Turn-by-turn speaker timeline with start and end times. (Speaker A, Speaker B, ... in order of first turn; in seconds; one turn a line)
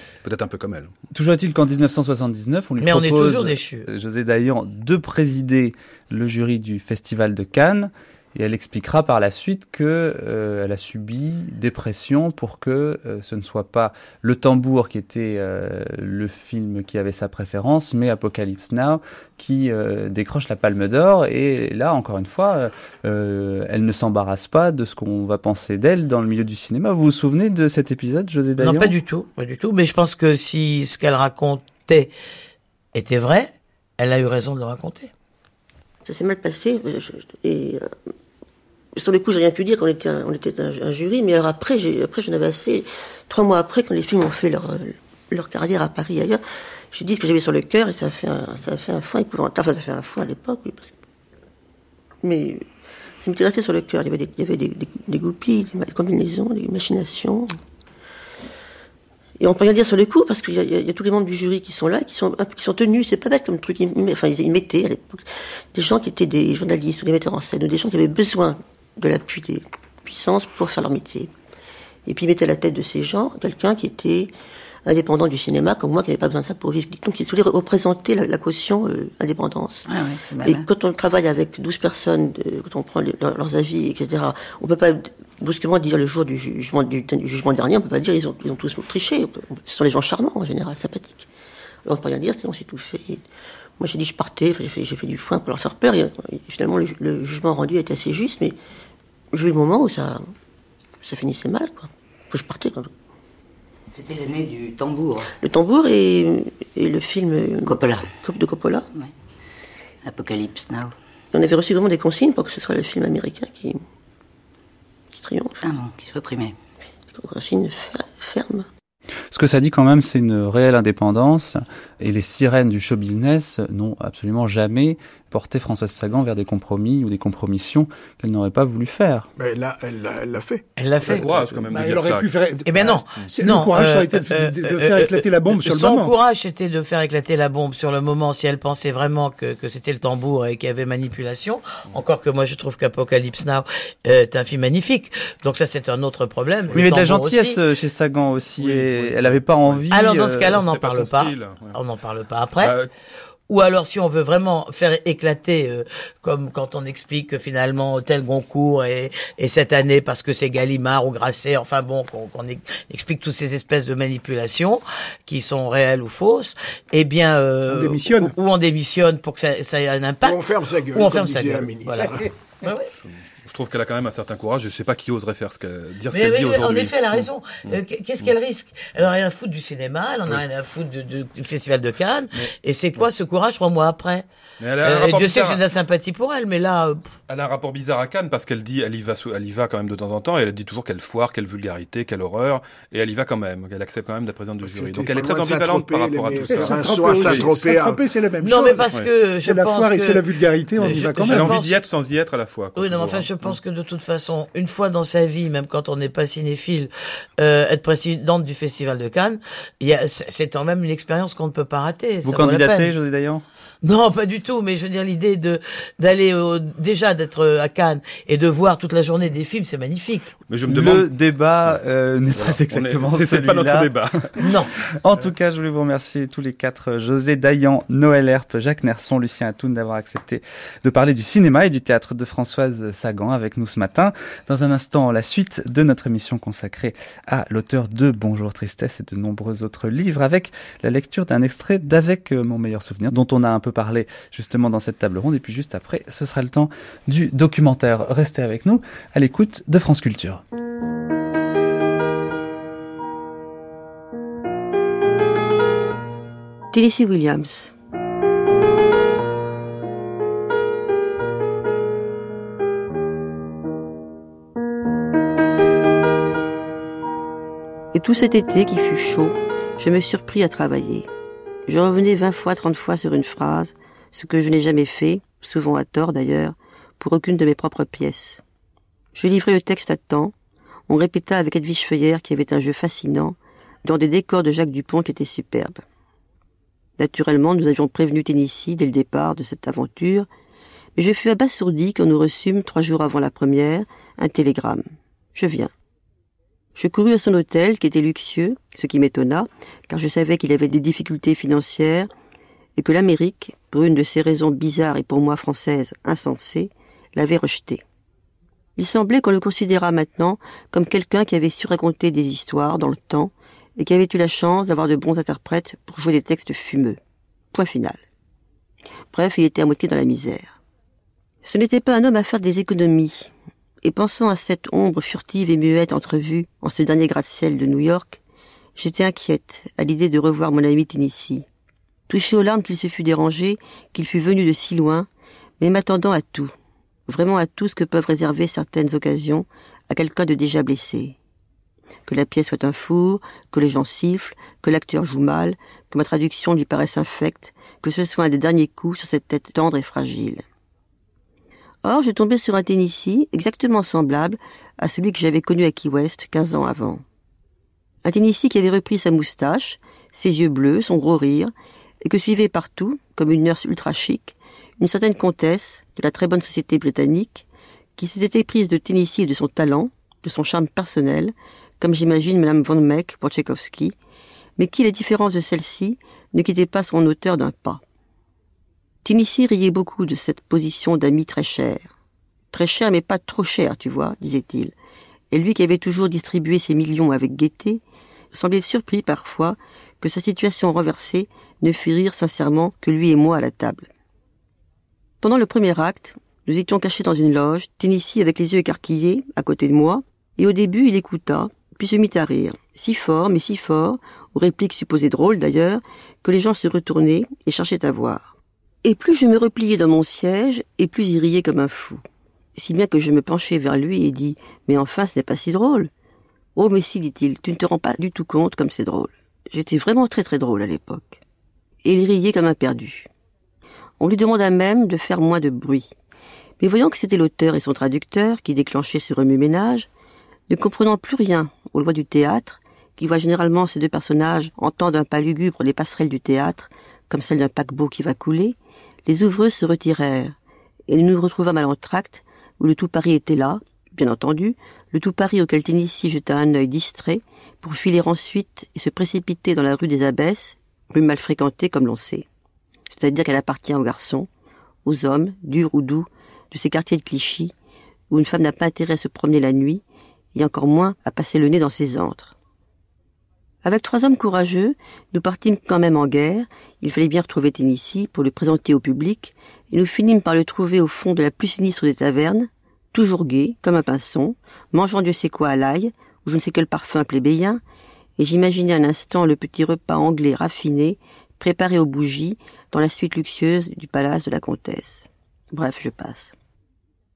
Speaker A: 0.2-0.9
Speaker B: 1.1-28.9
Speaker C: 2.8-3.9
Speaker C: 28.6-32.1
Speaker C: 32.9-35.1
Speaker D: 36.0-37.9
Speaker D: 39.0-50.9
Speaker D: 52.2-52.6
Speaker D: 53.2-57.5
Speaker D: 59.4-71.3
Speaker D: 72.0-74.3
Speaker D: 74.8-79.8
Speaker E: 79.8-80.7
Speaker D: 80.4-91.3
Speaker D: 91.8-93.2
Speaker D: 93.8-98.5
Speaker D: 99.3-100.3
Speaker D: 101.0-102.9
Speaker E: 103.9-105.3
Speaker D: 105.4-107.7
Speaker E: 107.6-108.2
Speaker D: 108.2-108.8
Speaker E: 110.0-110.9
Speaker D: 111.3-113.8
Speaker D: 115.1-115.5
Speaker E: 115.6-116.5
Speaker D: 117.1-118.6
Speaker B: 119.3-129.3
Speaker F: 129.4-130.6
Speaker C: 130.8-131.2
Speaker A: 131.1-132.3
Speaker G: 131.3-136.1
Speaker C: 132.7-147.6
Speaker B: 146.7-150.6
Speaker A: 148.6-149.9
Speaker C: 149.9-152.7
Speaker A: 150.4-151.8
Speaker A: 152.6-152.9
Speaker C: 153.5-172.9
Speaker G: 167.7-168.3
Speaker F: 170.2-172.3
Speaker A: 173.0-178.3
Speaker C: 176.1-184.2
Speaker A: 182.3-183.1
Speaker A: 184.6-185.6
Speaker C: 184.8-187.0
Speaker A: 187.3-197.5
Speaker F: 194.6-198.0
Speaker G: 196.4-198.9
Speaker C: 198.4-200.2
Speaker G: 199.4-201.6
Speaker A: 200.8-203.6
Speaker C: 200.8-201.7
Speaker C: 202.8-212.9
Speaker B: 212.2-213.4
Speaker C: 213.8-220.3
Speaker A: 220.5-221.1
Speaker B: 220.7-223.9
Speaker A: 222.3-224.6
Speaker B: 225.0-250.4
Speaker D: 256.7-257.7
Speaker D: 267.9-271.1
Speaker D: 271.7-278.4
Speaker D: 279.1-280.3
Speaker D: 280.9-285.8
Speaker D: 287.0-290.3
Speaker D: 291.0-295.7
Speaker D: 296.8-302.1
Speaker D: 302.8-307.8
Speaker D: 308.8-317.0
Speaker D: 317.5-318.0
Speaker D: 319.1-320.6
Speaker D: 321.4-323.3
Speaker D: 323.8-328.2
Speaker D: 328.8-331.4
Speaker D: 332.1-335.1
Speaker D: 335.6-336.5
Speaker D: 337.1-341.1
Speaker D: 342.1-350.4
Speaker D: 351.8-357.0
Speaker D: 358.0-361.5
Speaker D: 362.0-367.4
Speaker D: 368.0-373.9
Speaker D: 374.6-377.8
Speaker D: 379.0-381.9
Speaker D: 382.5-384.7
Speaker D: 385.3-387.8
Speaker D: 388.3-393.9
Speaker D: 395.2-408.3
Speaker D: 408.8-412.0
Speaker D: 412.6-415.9
Speaker D: 416.6-421.2
Speaker D: 421.8-423.1
Speaker D: 424.0-425.9
Speaker D: 426.6-429.9
Speaker D: 430.5-440.3
Speaker D: 440.9-452.2
Speaker D: 452.9-454.3
Speaker D: 454.9-457.5
Speaker D: 458.1-459.8
Speaker D: 460.3-462.3
Speaker D: 463.6-477.6
Speaker D: 478.2-486.3